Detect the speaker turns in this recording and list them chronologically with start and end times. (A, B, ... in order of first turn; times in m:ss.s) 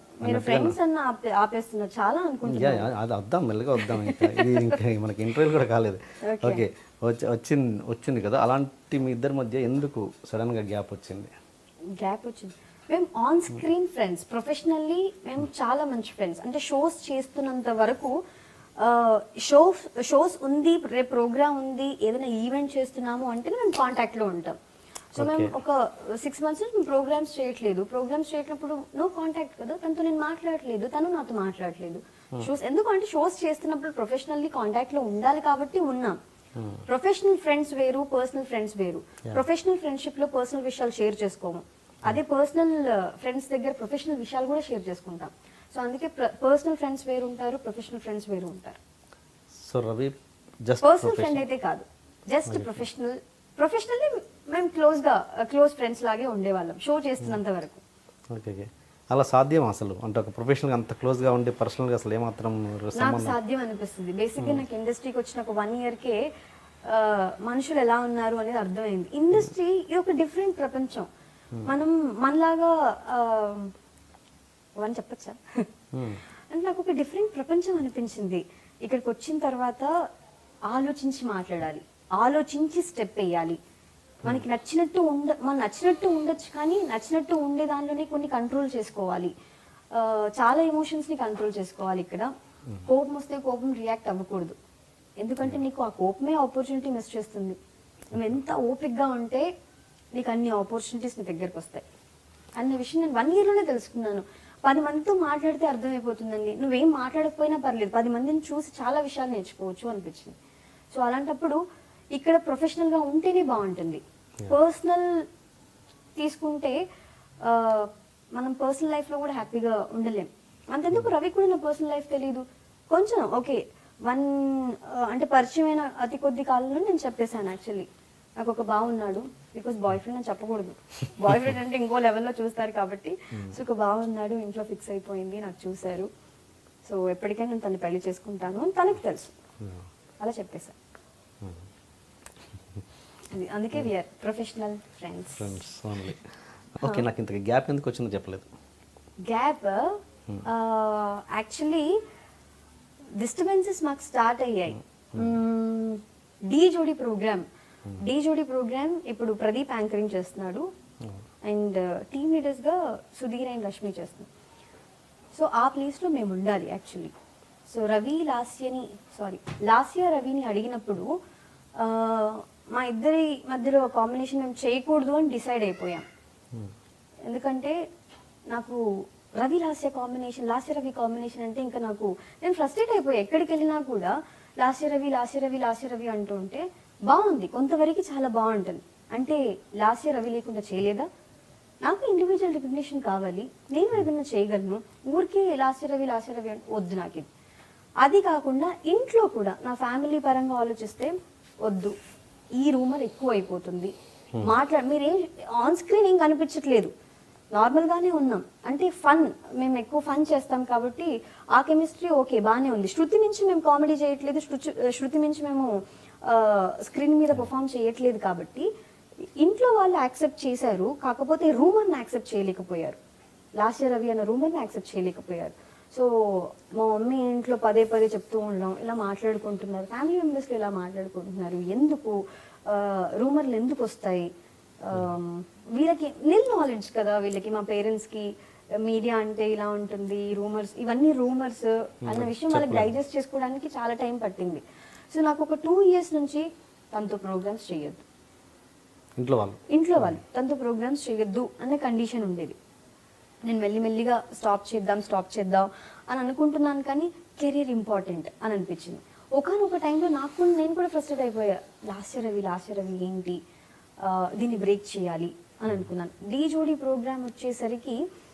0:00.2-0:02.9 A
0:00.2-0:00.8 B
0:02.5-0:11.3 B
0:03.8-0:04.8 A
0:06.2-0:06.6 A
0:11.9-0:18.1 A
0:18.8-0:24.6 A
0:25.1-0:36.2 A
0:25.2-0:25.5 B
0:36.6-0:36.8 B
0:36.9-0:48.8 A
0:49.5-0:51.4 B
0:50.8-0:57.8 A
0:52.5-0:52.8 B
0:58.3-1:03.4 B
1:02.9-1:06.2 A
1:06.9-1:11.1 A
1:11.6-1:13.7 A
1:14.8-1:15.6 A
1:15.9-1:16.2 B
1:16.5-1:19.9 A
1:20.7-1:23.6 A
1:24.2-1:29.3 A
1:29.9-1:32.3 A
1:32.8-1:34.6 A
1:35.2-1:37.6 A
1:38.1-1:39.4 A
1:40.2-1:41.8 A
1:42.6-1:50.4 A
1:50.9-1:51.6 A
1:52.1-1:55.1 A
1:56.2-1:56.8 A
1:57.4-2:07.9 A
2:08.4-2:16.1 A
2:16.8-2:19.3 A
2:20.2-2:20.8 A
2:21.4-2:21.6 B
2:23.3-2:25.6 A
2:25.4-2:28.5 B
2:29.3-2:32.0 A
2:33.2-2:37.4 A
2:38.0-2:40.6 A
2:41.4-2:44.3 A
2:45.3-2:47.1 A
2:47.7-2:51.1 A
2:51.8-2:56.0 A
2:57.3-2:57.8 A
2:58.5-2:58.8 A
2:59.4-3:11.0 A
3:11.8-3:17.3 A
3:18.0-3:21.1 A
3:21.6-3:21.9 A
3:22.6-3:26.9 A
3:27.5-3:35.7 A
3:36.2-3:38.7 A
3:39.4-3:43.0 A
3:43.6-3:54.3 A
3:54.8-3:58.3 A
3:58.8-4:08.0 A
4:02.0-4:02.9 B
4:09.2-4:10.2 B
4:09.7-4:12.6 A
4:13.4-4:23.4 A
4:24.0-4:28.0 A